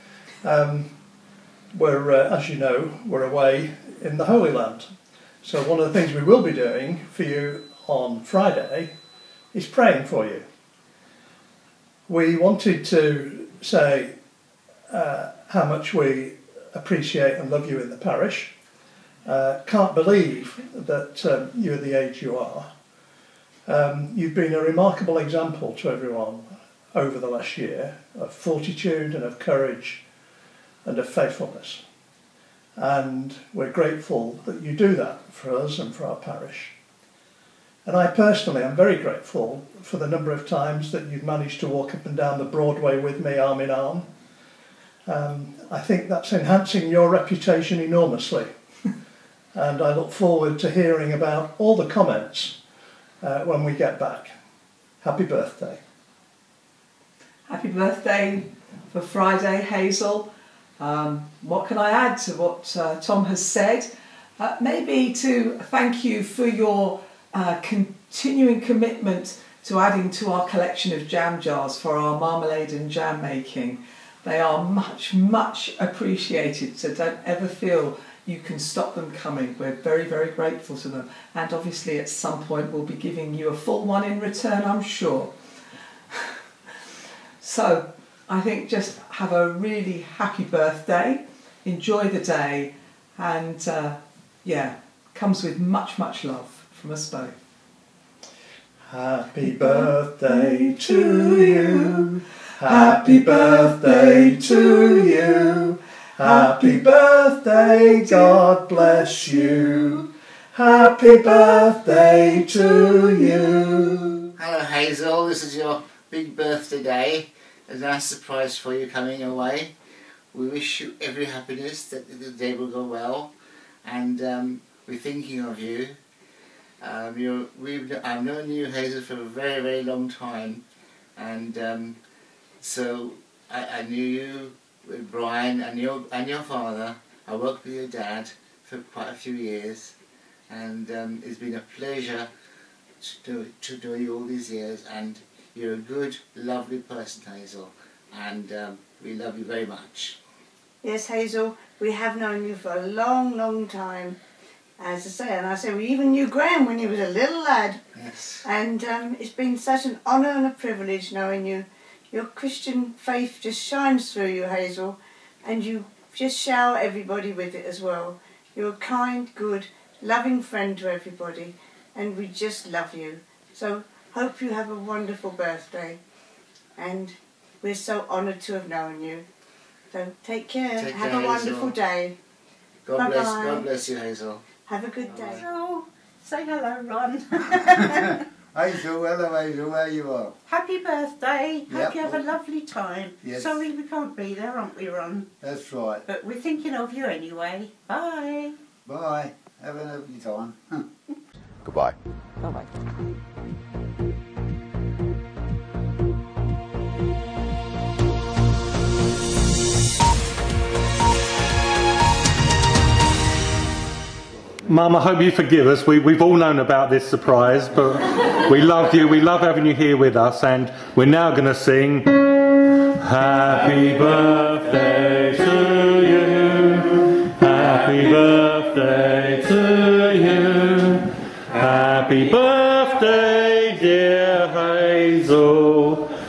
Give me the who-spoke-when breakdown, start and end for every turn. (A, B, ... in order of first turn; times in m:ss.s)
0:00.4-0:00.9 A
0:01.7-0:04.9 A
0:05.4-0:08.9 A
0:09.5-0:10.4 A
0:12.1-0:14.1 A
0:14.9-0:18.5 A
0:19.3-0:22.7 A
0:23.7-0:30.0 A
0:30.8-0:31.8 A
0:32.8-0:36.7 A
0:37.9-0:44.1 A
0:45.1-0:48.5 A
0:49.6-0:52.6 A
0:53.2-0:54.3 A
0:55.0-0:55.8 A
0:57.5-1:25.3 B
1:27.4-1:37.4 B
1:38.9-1:54.3 A
1:40.7-1:41.6 B
1:42.6-1:45.2 B
1:46.2-1:46.5 B
1:54.4-1:59.7 C
2:00.3-2:03.3 C
2:03.8-2:05.9 C
2:06.8-2:10.6 C
2:11.2-2:12.0 C
2:12.6-2:19.9 C
2:20.5-2:22.3 C
2:23.0-2:30.2 C
2:30.8-2:34.2 D
2:34.8-2:37.8 D
2:37.9-2:38.4 C
2:38.4-2:56.0 D
2:56.8-2:59.2 D
2:59.9-3:02.2 D
3:00.8-3:01.8 C
3:02.8-3:04.4 C
3:02.9-3:03.7 D
3:04.7-3:05.5 D
3:05.0-3:08.1 E
3:05.1-3:05.4 C
3:07.8-3:10.4 F
3:10.5-3:15.3 E
3:11.7-3:12.3 F
3:13.2-3:13.7 F
3:15.4-3:16.0 F
3:16.1-3:18.6 E
3:18.8-3:20.9 F
3:34.6-3:42.4 G
3:43.0-3:56.0 G